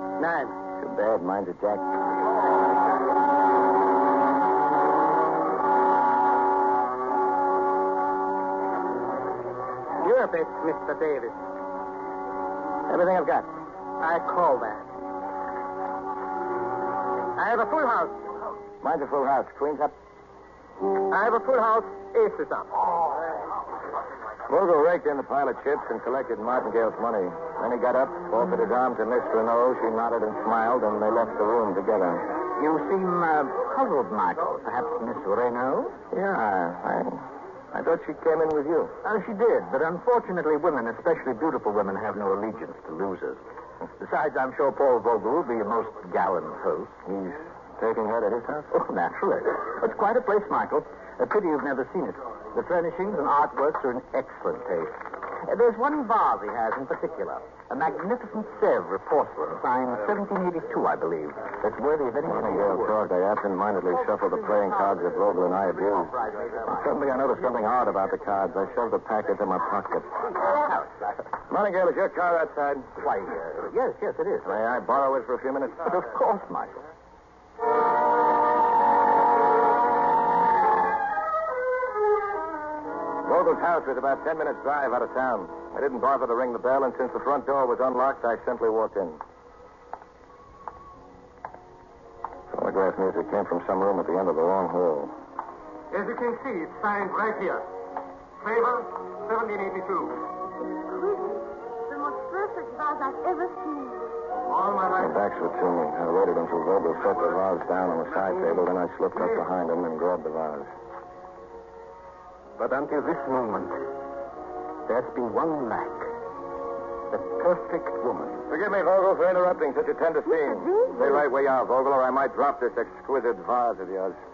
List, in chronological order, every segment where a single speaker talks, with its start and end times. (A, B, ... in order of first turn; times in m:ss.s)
0:00.2-0:00.6 A
0:00.8-0:01.9 B
0:10.0-0:11.4 A
0:12.9-0:13.5 B
0:14.0-0:14.9 A
0:17.4-0:18.2 A
0:18.8-0:20.0 B
0:21.1-0:22.7 A
0:24.5-0:32.3 B
0:32.5-0:36.0 C
0:36.1-0:38.9 B
0:39.0-0:43.4 C
0:44.0-0:46.9 C
0:47.1-0:48.7 B
0:48.7-1:02.9 C
1:02.2-1:06.1 B
1:06.0-1:06.9 C
1:06.7-1:10.2 B
1:10.4-1:11.2 C
1:11.5-1:13.0 B
1:13.0-1:14.6 C
1:14.4-1:15.9 B
1:15.8-1:16.8 C
1:23.2-1:29.2 B
1:32.5-1:35.1 B
1:35.9-1:37.7 A
1:38.4-1:40.3 A
1:40.9-1:44.1 D
1:44.5-1:45.2 A
1:45.0-1:50.7 B
1:52.6-1:53.2 E
1:54.9-1:56.1 E
1:57.1-1:58.3 E
1:58.5-2:04.2 B
2:00.3-2:01.2 D